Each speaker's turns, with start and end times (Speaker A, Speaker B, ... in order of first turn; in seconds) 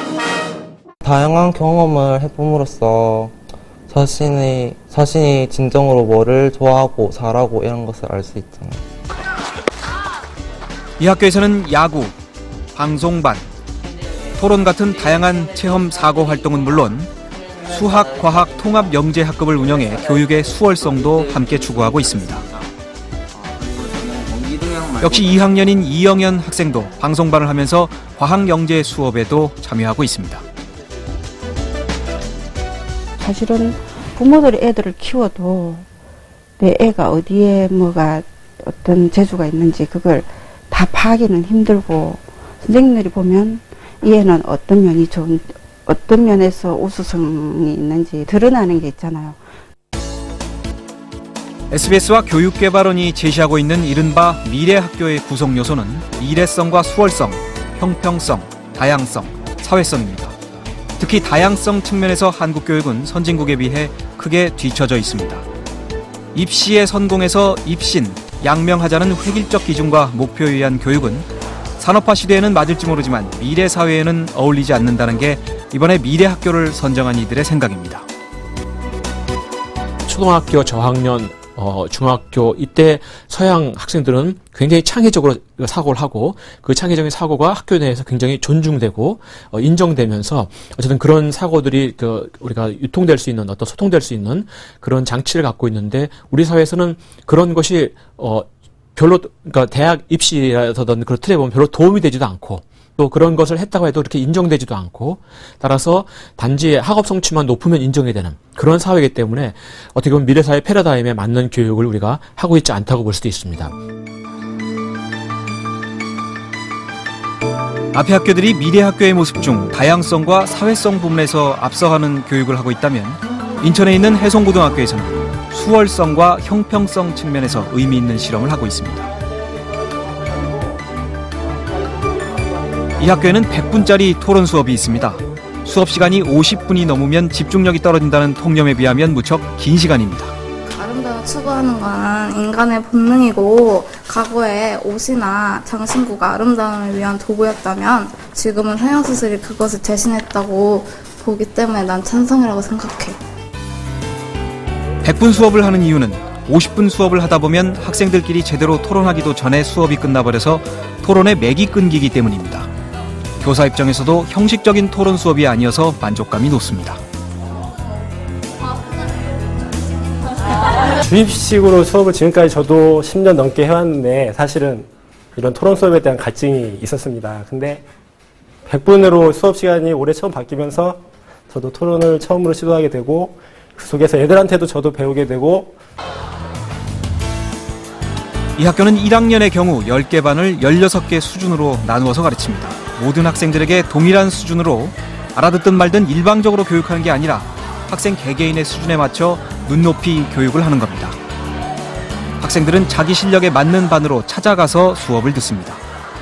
Speaker A: 1.0-3.4, 3.9-8.8, 20.8-22.7, 23.4-25.5
Speaker B: 11.0-12.2, 12.8-13.5, 14.4-17.1, 17.6-22.4, 25.0-30.4, 51.7-60.4, 61.0-65.4, 66.3-78.1, 117.9-129.1, 133.0-140.3, 155.0-162.7, 163.4-167.0, 188.6-201.2, 202.4-205.8
Speaker C: 33.2-35.9, 36.6-49.4
Speaker D: 80.1-113.7
Speaker E: 140.7-153.2
Speaker F: 171.1-177.9, 178.7-185.8